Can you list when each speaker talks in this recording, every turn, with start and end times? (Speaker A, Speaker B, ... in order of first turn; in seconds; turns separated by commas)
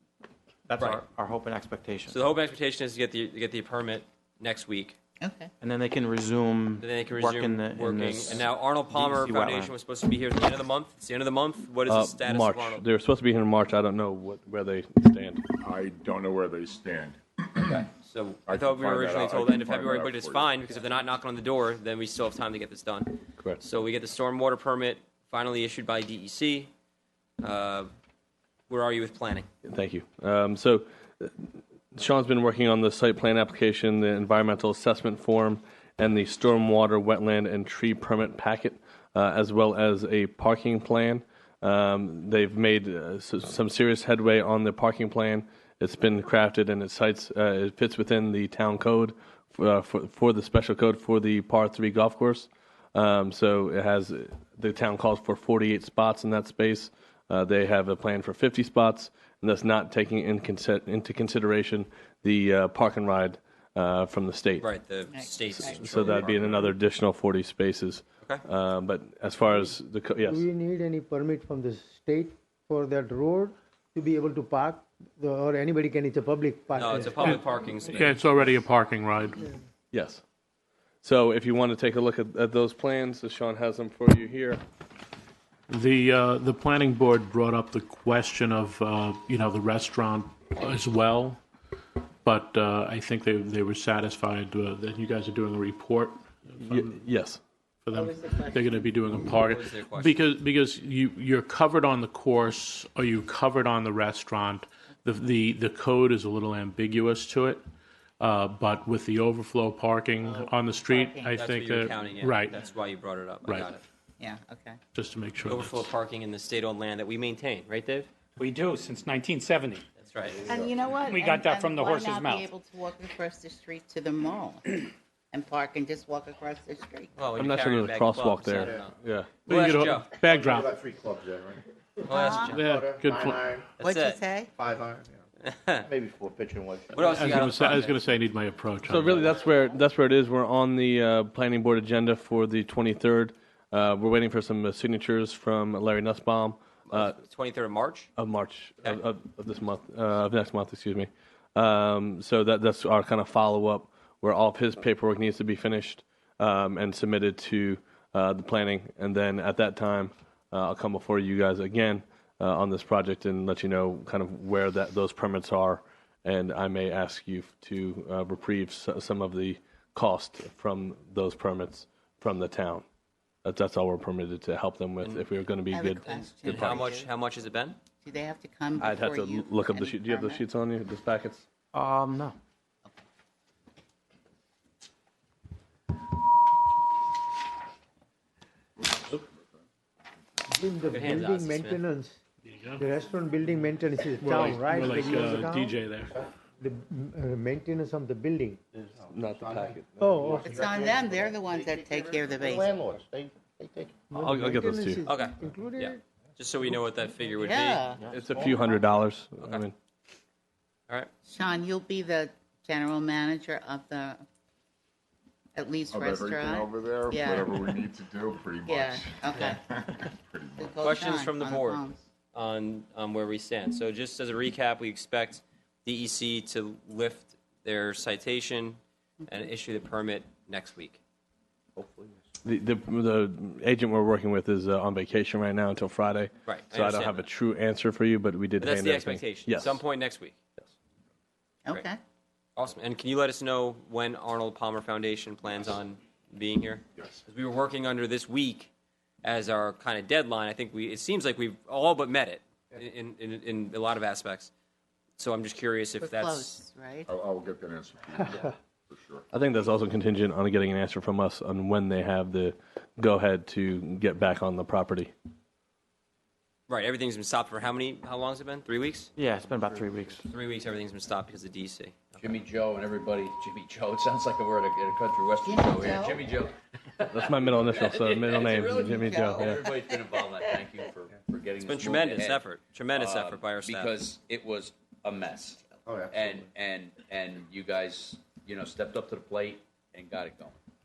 Speaker A: 0.7-2.2, Speaker B: 0.8-1.0, Speaker B: 2.1-5.0, Speaker C: 5.2-5.5, Speaker A: 5.6-9.7, Speaker B: 6.8-12.8, Speaker D: 11.9-15.4, Speaker E: 15.6-17.9, Speaker B: 17.6-26.7, Speaker E: 18.5-20.7, Speaker B: 27.4-27.9, Speaker B: 28.7-29.5, Speaker D: 29.6-64.7, Speaker B: 64.6-66.7, Speaker C: 65.1-66.0, Speaker D: 65.5-70.5, Speaker F: 70.2-78.4, Speaker B: 76.8-78.1, Speaker G: 78.0-79.4, Speaker D: 79.9-80.2, Speaker D: 81.0-84.6, Speaker G: 85.7-91.4, Speaker G: 92.2-97.0, Speaker D: 96.6-97.4, Speaker G: 97.8-107.6, Speaker C: 97.9-99.0, Speaker B: 99.4-100.2, Speaker G: 108.2-112.6, Speaker C: 110.2-111.4, Speaker B: 111.4-113.8, Speaker G: 113.5-113.7, Speaker C: 114.2-114.8, Speaker G: 114.9-115.9, Speaker B: 115.5-118.1, Speaker H: 118.4-119.8, Speaker B: 120.0-120.5, Speaker C: 120.4-127.2, Speaker H: 120.8-122.5, Speaker B: 127.2-128.9, Speaker D: 127.4-129.3, Speaker B: 129.4-130.1, Speaker G: 129.5-130.8, Speaker I: 130.4-131.6, Speaker B: 132.1-132.7, Speaker C: 132.1-132.6, Speaker G: 132.4-133.6, Speaker I: 132.8-133.6, Speaker B: 133.8-134.2, Speaker C: 133.8-134.5, Speaker I: 134.6-135.1, Speaker B: 135.4-135.9, Speaker I: 135.9-137.5, Speaker B: 136.9-138.0, Speaker G: 137.0-139.3, Speaker D: 138.9-147.2, Speaker B: 146.9-148.1, Speaker D: 148.2-172.9, Speaker D: 173.4-176.9, Speaker C: 175.7-177.1, Speaker B: 176.4-177.8, Speaker C: 178.0-180.4, Speaker D: 178.8-181.4, Speaker A: 181.7-182.4, Speaker F: 190.5-192.2, Speaker B: 190.9-191.8, Speaker F: 192.8-195.8, Speaker G: 194.2-196.1, Speaker F: 196.6-198.6, Speaker I: 198.8-203.9, Speaker D: 199.1-200.0, Speaker F: 200.0-200.6, Speaker C: 200.4-202.8, Speaker F: 204.1-206.0, Speaker D: 204.2-205.0, Speaker B: 205.1-207.9, Speaker C: 207.4-208.1, Speaker D: 208.1-209.8, Speaker I: 208.3-208.7, Speaker C: 211.2-214.2, Speaker C: 215.6-217.7, Speaker E: 215.9-220.9, Speaker C: 218.7-222.0, Speaker B: 220.8-231.0, Speaker D: 232.4-239.8, Speaker B: 236.4-237.3, Speaker B: 238.6-240.4, Speaker C: 241.7-242.0, Speaker B: 242.6-248.7, Speaker B: 249.2-254.5, Speaker B: 255.2-256.6, Speaker C: 256.0-257.1, Speaker E: 257.1-259.2, Speaker D: 259.3-265.1, Speaker B: 266.7-269.1, Speaker A: 269.2-270.2, Speaker B: 270.2-272.4, Speaker J: 272.2-290.6, Speaker C: 275.4-276.4, Speaker D: 277.1-279.6, Speaker B: 277.7-278.6, Speaker C: 278.6-280.8, Speaker B: 281.6-284.0